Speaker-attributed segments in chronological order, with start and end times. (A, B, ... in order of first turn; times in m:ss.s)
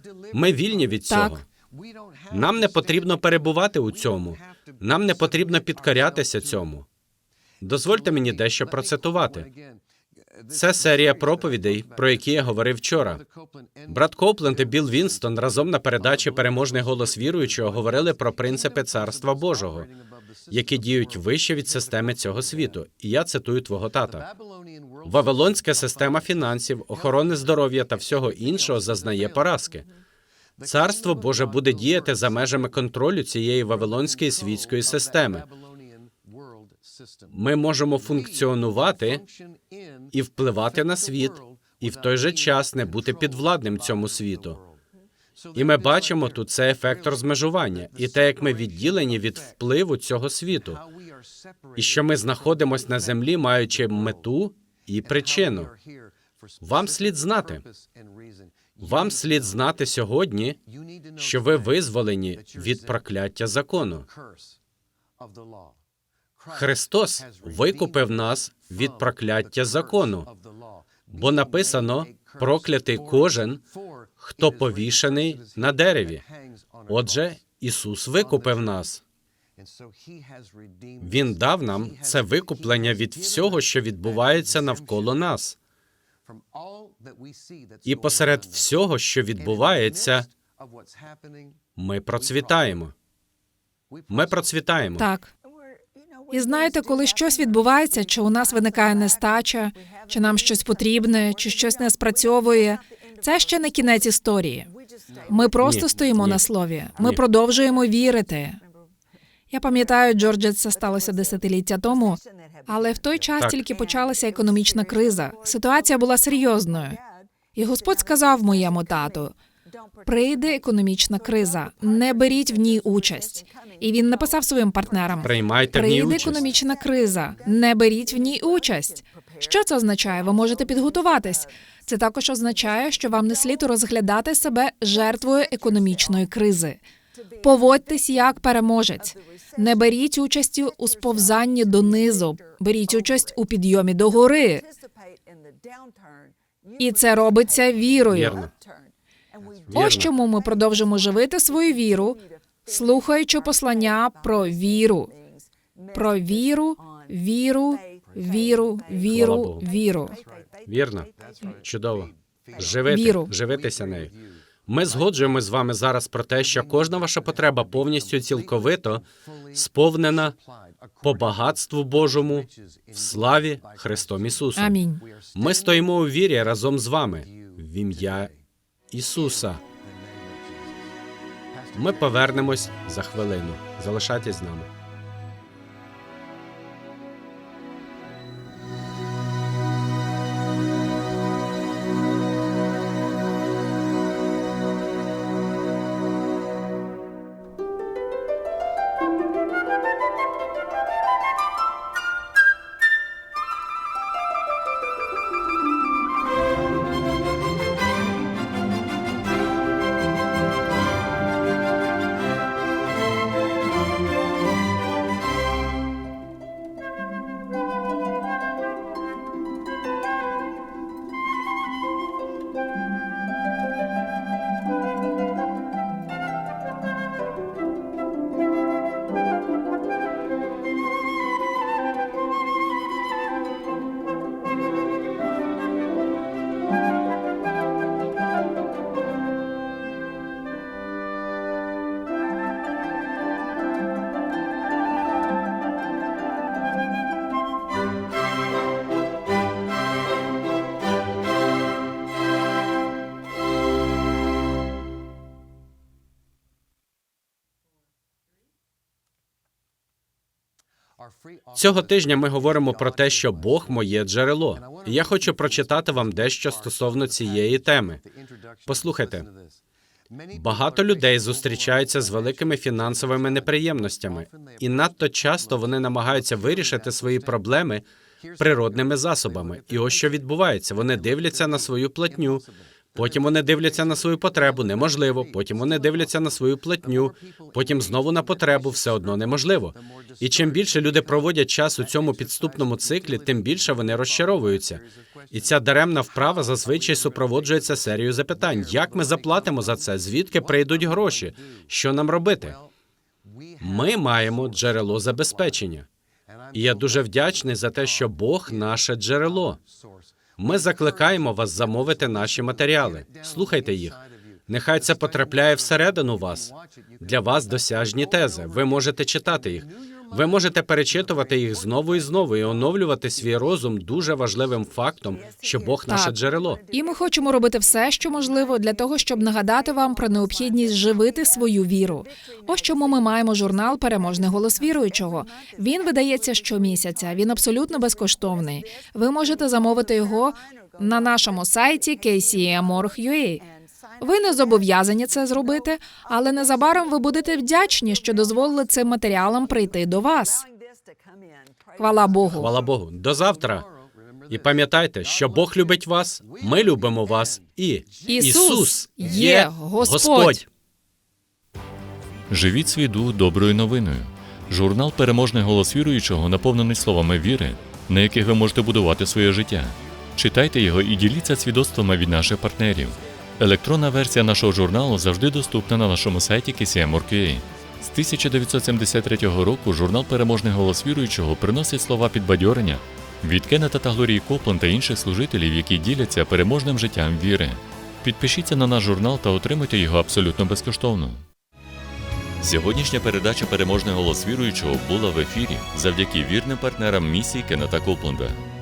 0:00.3-0:01.4 A
0:01.1-0:01.4 B
0:02.3-0:06.8 A
0:07.6-0:09.5 A
0:10.5-0:13.2 A
0:13.9-0:19.9 A
0:20.5-0:24.3 A
0:25.0-0:29.9 A
0:30.6-0:35.5 A
0:37.3-0:39.2 A
0:40.1-0:44.6 A
0:45.5-0:50.8 A
0:51.7-0:55.7 A
0:56.6-0:57.6 A
0:58.8-1:00.6 A
1:01.2-1:04.1 A
1:06.5-1:10.3 A
1:11.1-1:13.6 A
1:14.2-1:16.2 A
1:16.9-1:19.0 A
1:21.0-1:25.6 A
1:27.8-1:30.3 A
1:31.8-1:32.9 A
1:34.1-1:35.0 A
1:35.0-1:35.3 B
1:36.3-1:44.7 B
1:45.3-1:48.6 B
1:45.6-1:46.4 A
1:49.5-1:57.0 B
1:53.4-1:53.6 A
1:57.5-1:59.3 B
2:00.0-2:16.8 B
2:05.2-2:06.4 A
2:17.4-2:24.6 B
2:26.8-2:28.4 B
2:28.1-2:28.5 A
2:29.7-2:30.1 A
2:29.7-2:35.1 B
2:35.9-2:40.2 B
2:39.1-2:39.7 A
2:40.6-2:44.1 A
2:42.9-2:43.3 B
2:44.7-2:50.4 A
2:51.0-2:54.8 A
2:54.6-2:55.0 B
2:55.3-2:58.3 A
2:58.9-2:59.6 A
3:01.7-3:04.7 A
4:21.5-4:28.0 A
4:28.6-4:29.3 A
4:30.3-4:37.8 A
4:38.4-5:02.6 A
5:03.6-5:05.9 A
5:06.5-5:09.6 A
5:10.4-5:26.6 A
5:25.9-5:26.1 B
5:26.7-5:43.4 B
5:44.0-5:50.4 B
5:51.8-5:52.5 B
5:52.3-5:53.7 A
5:54.3-6:00.4 A
5:58.1-6:00.4 B
6:02.3-6:31.2 C
6:32.4-6:38.4 C